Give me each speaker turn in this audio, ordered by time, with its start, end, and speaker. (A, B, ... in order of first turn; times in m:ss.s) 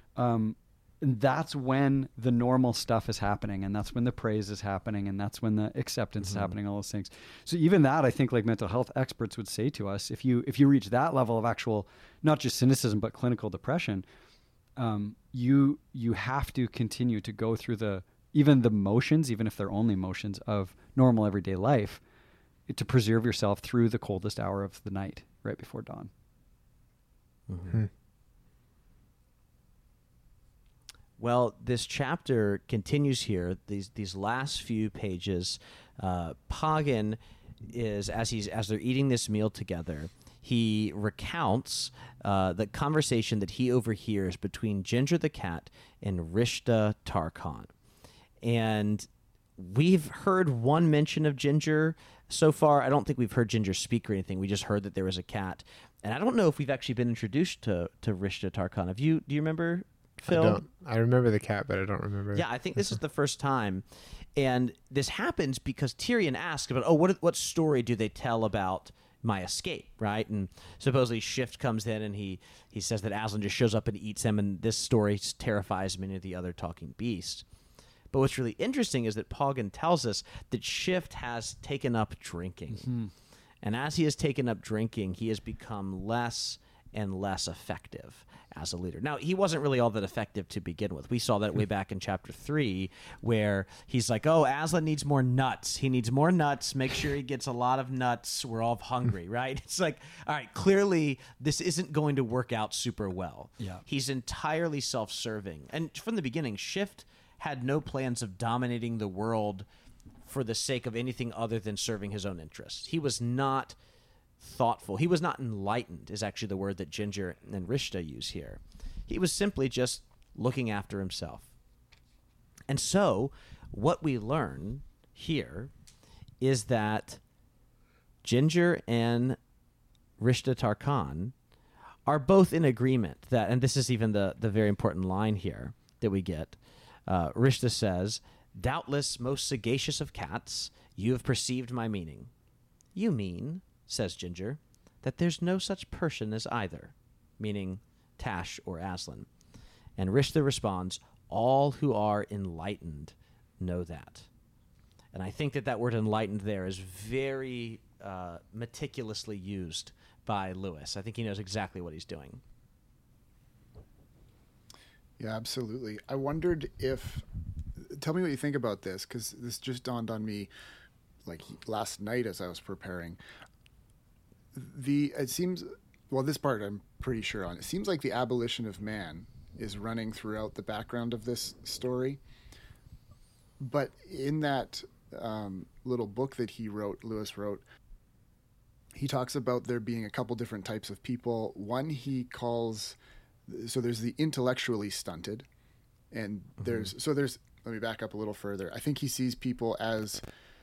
0:00.2-0:14.0 A
0:06.2-0:06.5 B
0:14.8-0:22.0 A
0:22.7-0:26.1 A
0:27.5-0:27.8 B
0:31.2-0:37.2 B
0:37.7-0:47.7 B
0:48.4-1:00.6 B
1:00.3-1:02.4 C
1:02.3-1:03.8 B
1:04.4-1:17.4 B
1:18.1-1:22.9 B
1:22.8-1:23.1 A
1:23.6-1:49.6 B
1:50.3-1:53.8 B
1:54.4-2:01.5 B
2:02.7-2:05.7 B
2:06.4-2:07.2 B
2:08.2-2:09.4 B
2:10.2-2:11.3 B
2:12.0-2:22.3 B
2:22.9-2:29.3 B
2:30.0-2:34.3 B
2:35.1-2:42.4 B
2:45.2-2:47.2 D
2:47.8-2:50.5 D
2:51.2-2:53.2 D
2:54.5-3:02.2 D
3:03.6-3:07.6 D
3:08.9-3:13.0 D
3:13.5-3:15.4 D
3:16.1-3:20.2 D
3:16.6-3:16.9 B